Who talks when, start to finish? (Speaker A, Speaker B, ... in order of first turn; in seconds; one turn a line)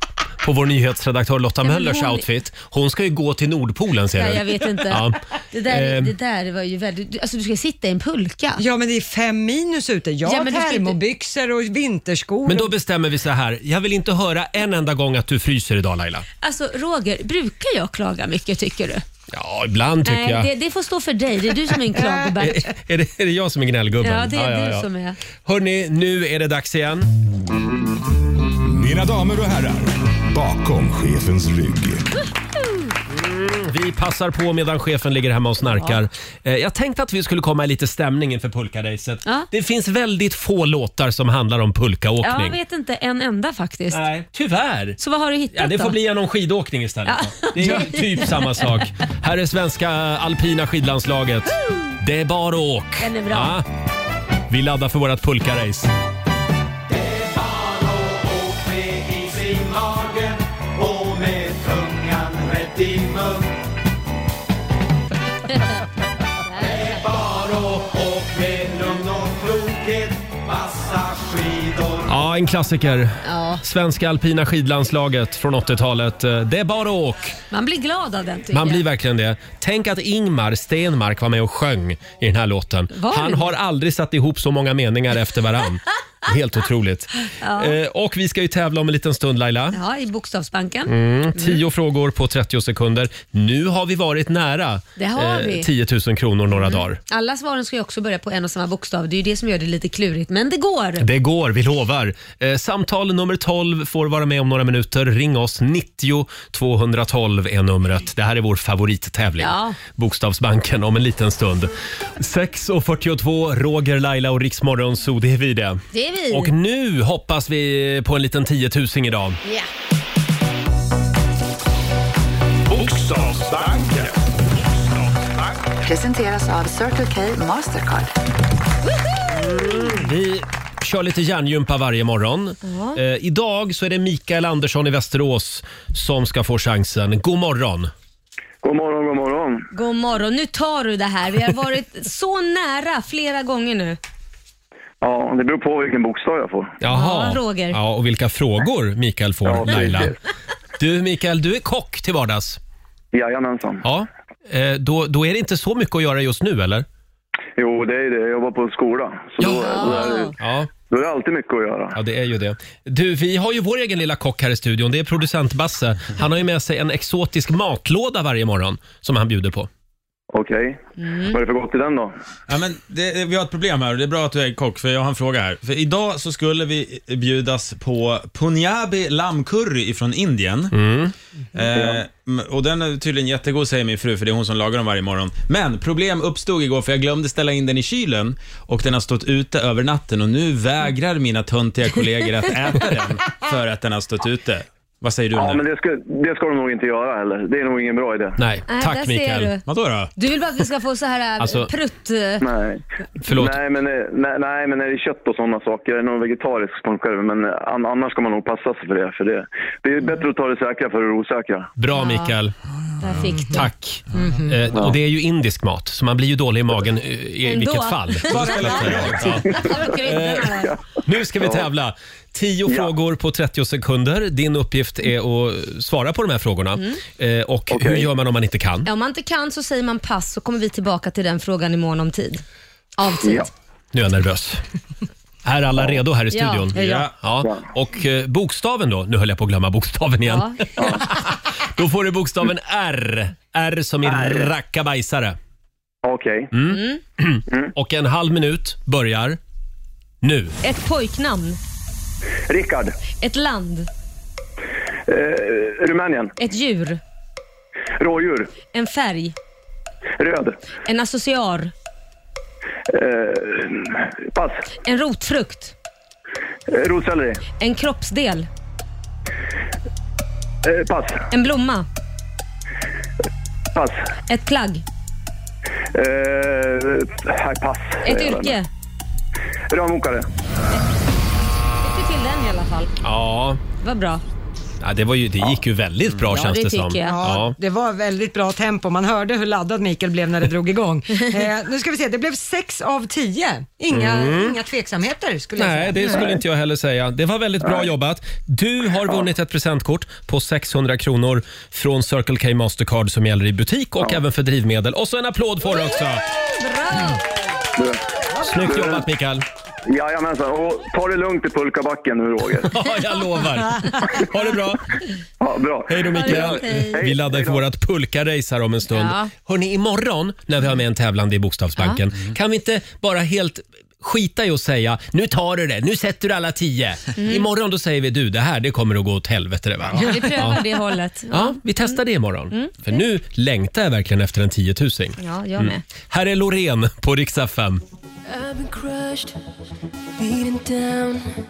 Speaker A: 0.4-6.1
Speaker B: 1.6-2.2
Speaker B: 4.1-8.6
Speaker C: 8.6-12.7
Speaker B: 10.2-11.0
Speaker A: 12.4-16.2
Speaker B: 16.4-19.0
Speaker A: 19.3-20.5
Speaker B: 20.0-22.7
Speaker A: 22.4-24.9
Speaker B: 24.0-25.2
Speaker A: 25.4-27.2
Speaker D: 28.6-32.0
Speaker A: 33.1-42.6
Speaker B: 42.2-44.0
Speaker A: 43.9-45.0
Speaker B: 45.0-46.0
Speaker A: 45.5-53.6
Speaker B: 47.0-48.6
Speaker B: 53.0-53.5
Speaker A: 54.5-55.9
Speaker E: 56.9-63.6
Speaker B: 66.5-67.0
Speaker E: 66.6-72.2
Speaker A: 72.0-77.4
Speaker B: 73.2-73.6
Speaker B: 77.5-78.8
Speaker A: 78.5-89.8
Speaker B: 82.9-83.5
Speaker B: 87.2-87.8
Speaker B: 89.7-91.6
Speaker A: 90.8-97.0
Speaker B: 95.0-95.7
Speaker B: 96.5-101.0
Speaker A: 101.0-119.4
Speaker B: 109.4-109.8
Speaker B: 115.9-116.5
Speaker D: 122.9-124.0
Speaker E: 123.0-123.8
Speaker F: 125.8-128.1
Speaker A: 129.3-137.9
Speaker B: 132.6-133.0
Speaker G: 138.6-139.7
Speaker B: 139.7-144.0
Speaker G: 145.0-146.8
Speaker A: 146.8-150.1
Speaker B: 146.9-147.8
Speaker G: 149.4-150.1
Speaker A: 150.8-152.6
Speaker G: 153.1-153.8
Speaker A: 153.8-156.8
Speaker G: 157.6-160.3
Speaker A: 159.4-160.7
Speaker B: 159.7-160.3
Speaker G: 160.9-161.9
Speaker A: 161.9-169.7
Speaker G: 170.3-172.1
Speaker B: 171.0-171.3
Speaker H: 172.5-180.7
Speaker A: 180.7-181.1
Speaker H: 181.5-195.6
Speaker G: 181.7-182.0
Speaker G: 195.3-198.3
Speaker A: 198.4-199.5
Speaker B: 198.7-199.6
Speaker H: 199.7-200.1
Speaker B: 200.2-202.4
Speaker A: 201.4-201.7
Speaker G: 202.4-211.7
Speaker A: 203.3-203.6
Speaker A: 211.8-212.5
Speaker B: 211.9-212.3
Speaker B: 213.0-213.7
Speaker A: 213.3-228.9
Speaker C: 214.1-214.5
Speaker B: 217.5-220.7
Speaker H: 218.3-219.4
Speaker G: 219.3-219.8
Speaker G: 221.4-221.7
Speaker G: 227.7-228.1
Speaker B: 228.8-232.4
Speaker B: 233.0-233.5
Speaker G: 233.2-233.5
Speaker A: 233.9-234.6
Speaker A: 235.4-245.4
Speaker B: 236.3-236.7
Speaker C: 236.7-237.1
Speaker H: 236.8-237.1
Speaker B: 240.2-240.6
Speaker G: 240.8-241.1
Speaker G: 244.1-244.4
Speaker G: 246.0-246.5
Speaker A: 246.5-249.4
Speaker B: 246.7-247.0
Speaker A: 250.2-250.6
Speaker B: 250.6-251.6
Speaker G: 252.5-252.9
Speaker B: 253.2-253.9
Speaker G: 255.1-256.3
Speaker B: 256.4-257.0
Speaker G: 258.0-258.5
Speaker B: 258.7-259.3
Speaker G: 260.2-260.5
Speaker B: 260.8-261.7
Speaker G: 262.9-264.6
Speaker B: 264.8-265.7
Speaker G: 266.7-267.4
Speaker B: 267.6-268.5
Speaker G: 270.6-271.2
Speaker B: 271.3-271.9
Speaker G: 273.7-274.0
Speaker B: 274.3-274.8
Speaker G: 275.9-278.6
Speaker B: 278.0-278.7
Speaker G: 279.7-280.2
Speaker B: 281.8-282.9
Speaker A: 283.0-283.6
Speaker B: 283.8-284.2
Speaker A: 284.8-287.6
Speaker B: 286.3-287.2
Speaker C: 287.0-296.1
Speaker A: 293.9-294.6
Speaker A: 295.6-306.2
Speaker B: 306.4-307.2
Speaker G: 307.8-309.0
Speaker A: 308.4-309.4
Speaker G: 309.8-312.7
Speaker A: 312.7-314.8
Speaker G: 315.4-317.6
Speaker A: 315.9-330.8
Speaker B: 316.1-317.0
Speaker B: 318.9-319.3
Speaker B: 327.1-327.5
Speaker B: 330.0-331.9
Speaker A: 331.3-337.8
Speaker B: 335.2-335.8
Speaker E: 338.3-339.3
Speaker E: 340.2-341.3